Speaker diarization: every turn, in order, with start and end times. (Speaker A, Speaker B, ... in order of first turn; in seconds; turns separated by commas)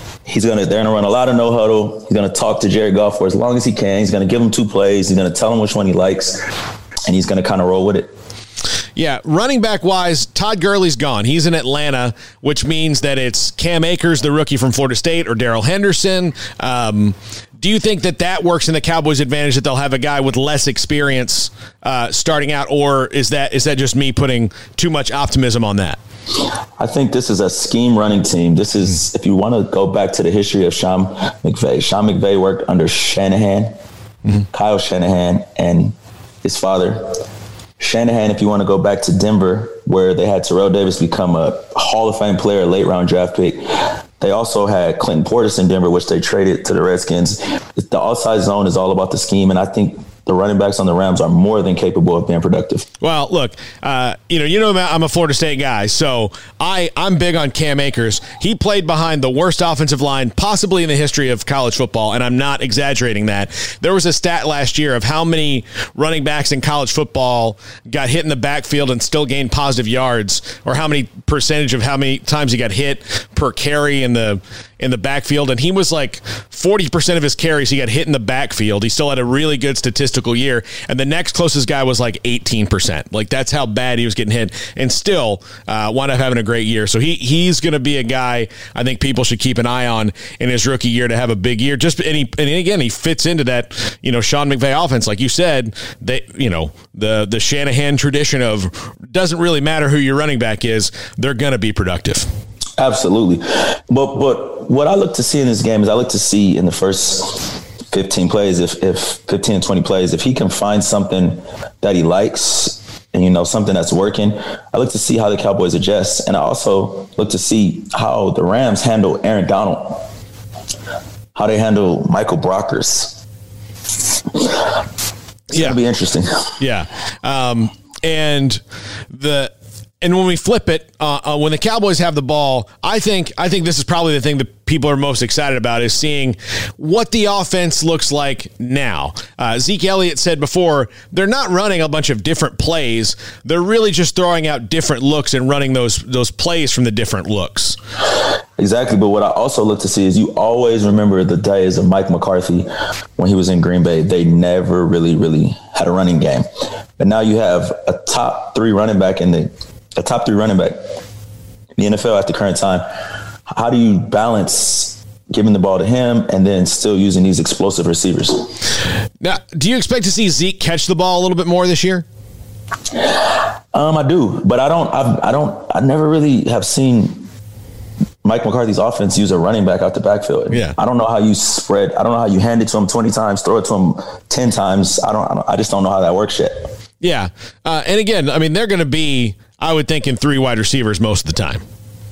Speaker A: 0.2-6.4, Speaker A: 7.1-8.1, Speaker B: 8.9-26.0, Speaker A: 26.8-33.8, Speaker A: 34.5-37.2, Speaker A: 37.8-52.9, Speaker B: 53.0-102.3, Speaker A: 102.8-120.0, Speaker A: 121.3-123.2, Speaker A: 125.5-126.5, Speaker B: 125.5-125.8, Speaker B: 126.6-147.8, Speaker A: 148.6-156.5, Speaker A: 157.0-160.9, Speaker A: 161.8-162.8, Speaker A: 163.5-168.5, Speaker B: 169.2-172.0, Speaker A: 172.9-177.3, Speaker A: 178.2-186.7, Speaker B: 180.5-180.8, Speaker B: 187.0-191.6